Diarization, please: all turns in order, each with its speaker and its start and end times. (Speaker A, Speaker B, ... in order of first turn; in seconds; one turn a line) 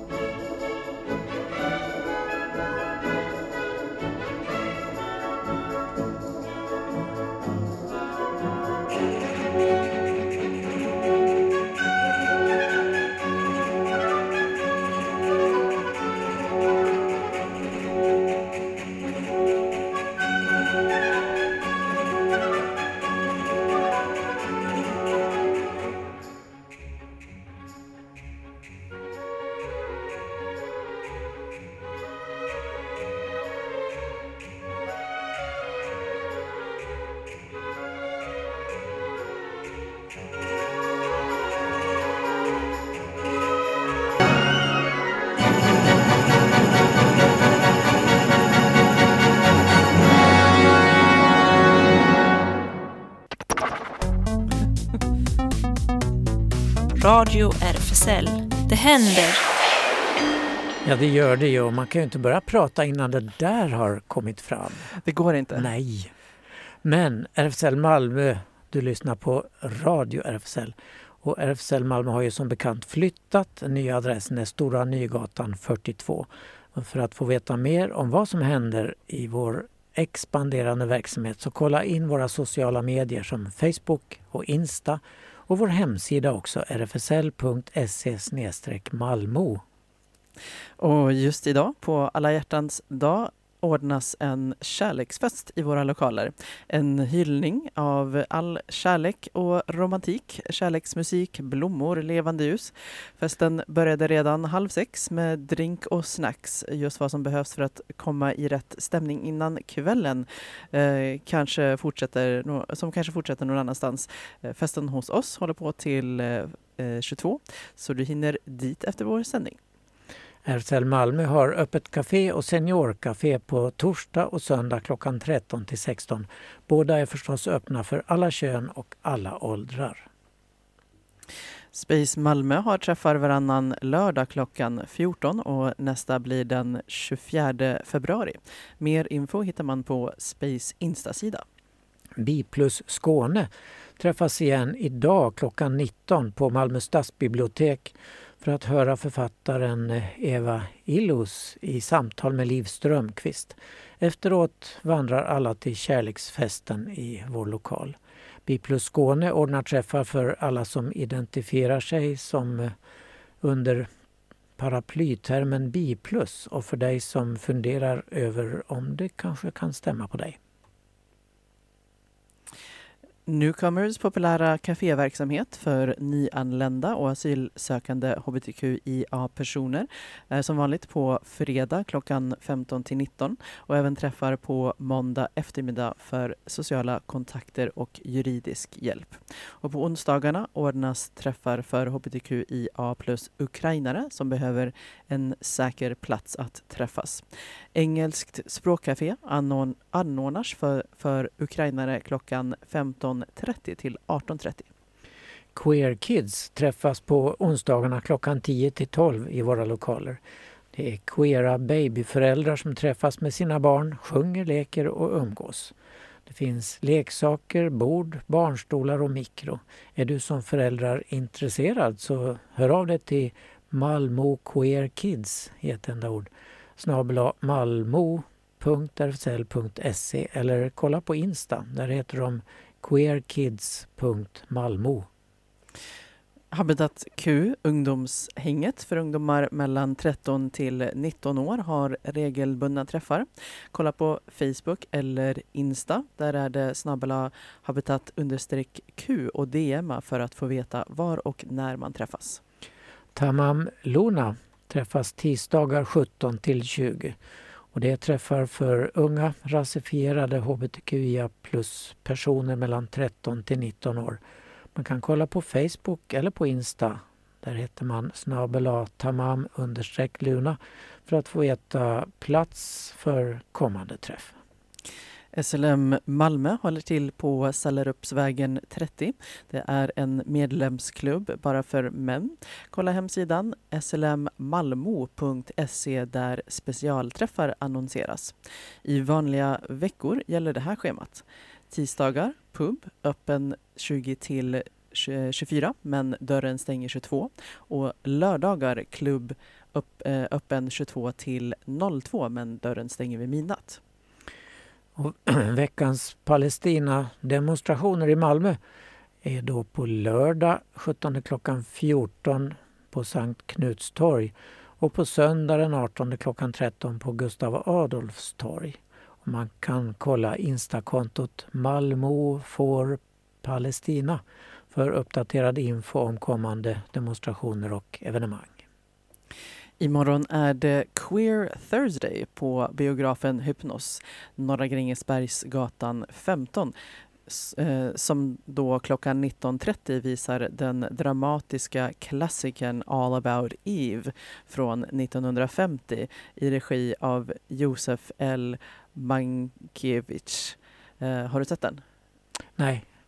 Speaker A: 57.0-59.4
Speaker B: 60.8-64.9
Speaker C: 65.0-65.7
Speaker B: 65.5-66.1
Speaker B: 66.8-89.6
Speaker C: 90.8-119.6
Speaker B: 120.5-130.1
Speaker C: 131.7-141.4
Speaker B: 142.2-162.7
Speaker B: 163.4-163.9
Speaker B: 164.6-170.4
Speaker C: 173.2-197.2
Speaker C: 197.7-204.7
Speaker B: 205.5-210.2
Speaker B: 210.7-215.7
Speaker B: 216.2-235.1
Speaker C: 236.5-252.4
Speaker B: 253.1-257.2
Speaker B: 257.7-264.2
Speaker B: 264.7-274.3
Speaker C: 275.3-288.3
Speaker C: 288.8-303.8
Speaker B: 304.9-308.6
Speaker B: 309.2-328.6
Speaker C: 329.8-336.7
Speaker C: 337.3-351.8
Speaker B: 352.6-352.9